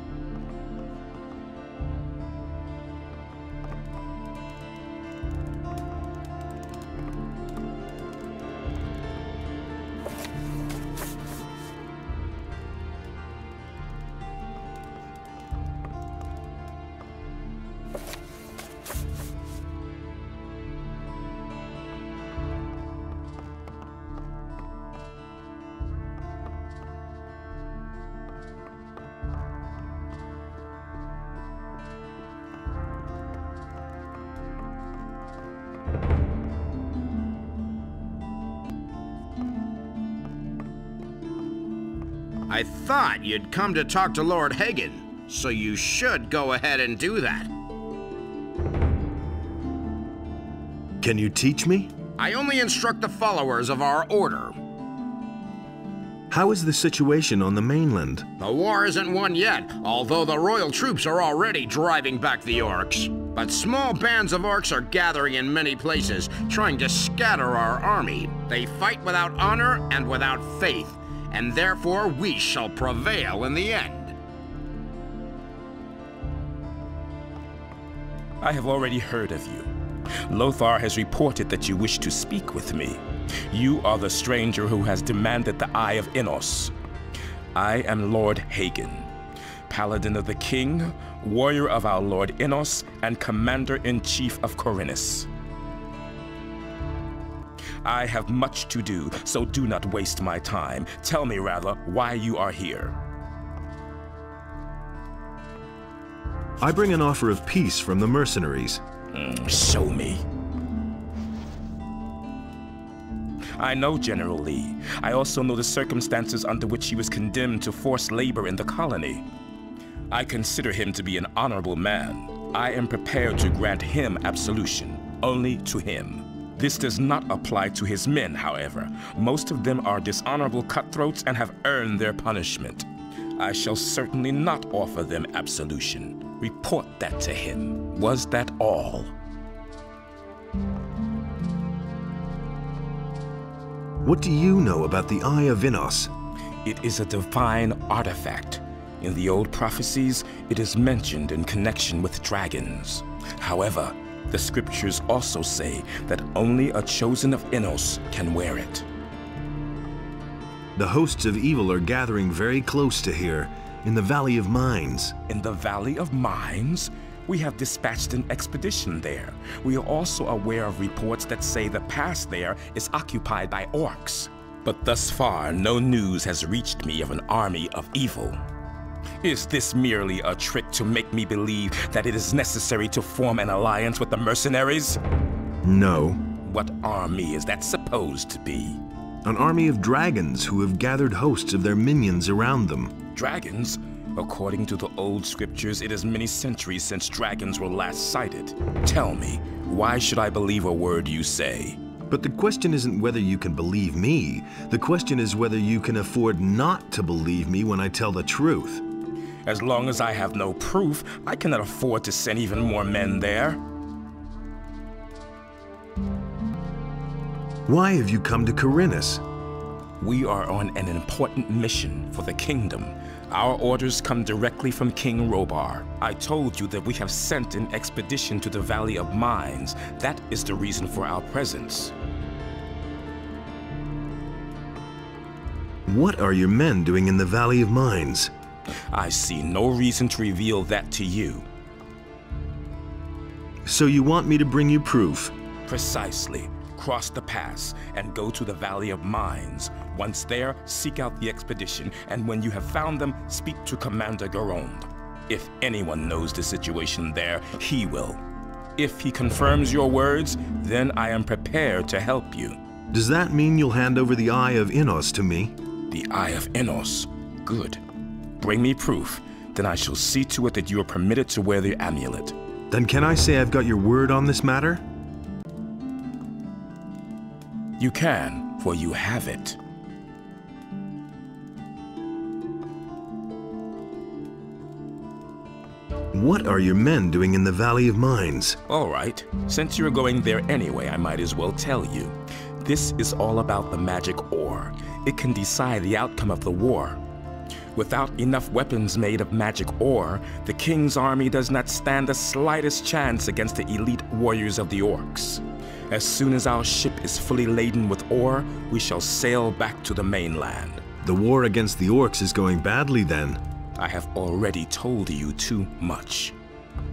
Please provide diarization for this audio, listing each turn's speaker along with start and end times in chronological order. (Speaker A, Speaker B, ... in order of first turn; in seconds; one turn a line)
Speaker A: 42.5-47.5
Speaker B: 51.0-51.9
Speaker A: 52.2-54.6
Speaker B: 56.3-58.3
Speaker A: 58.4-74.1
Speaker C: 78.4-79.7
Speaker C: 80.2-86.7
Speaker C: 87.5-89.1
Speaker C: 89.7-95.3
Speaker C: 97.8-103.0
Speaker B: 106.6-108.8
Speaker C: 109.1-110.2
Speaker C: 113.5-119.2
Speaker C: 120.1-132.9
Speaker C: 133.4-139.1
Speaker B: 144.0-146.1
Speaker C: 146.6-158.8
Speaker B: 160.8-165.1
Speaker C: 165.3-178.4
Speaker C: 179.2-185.0
Speaker B: 185.6-186.2
Speaker C: 186.4-188.8
Speaker B: 189.2-192.9
Speaker C: 193.1-201.8
Speaker B: 202.1-208.8
Speaker C: 209.4-213.6
Speaker B: 217.7-219.2
Speaker C: 220.0-231.9
Speaker B: 235.8-238.3
Speaker C: 238.9-241.5
Speaker B: 243.6-245.3
Speaker C: 245.7-258.2
Speaker C: 258.8-262.6
Speaker B: 262.9-265.5
Speaker C: 265.9-267.8
Speaker C: 268.4-272.4
Speaker B: 272.7-274.8
Speaker C: 277.8-279.6
Speaker B: 286.1-288.6
Speaker C: 288.7-297.0
Speaker C: 297.7-310.8
Speaker B: 311.0-313.4
Speaker C: 313.8-316.4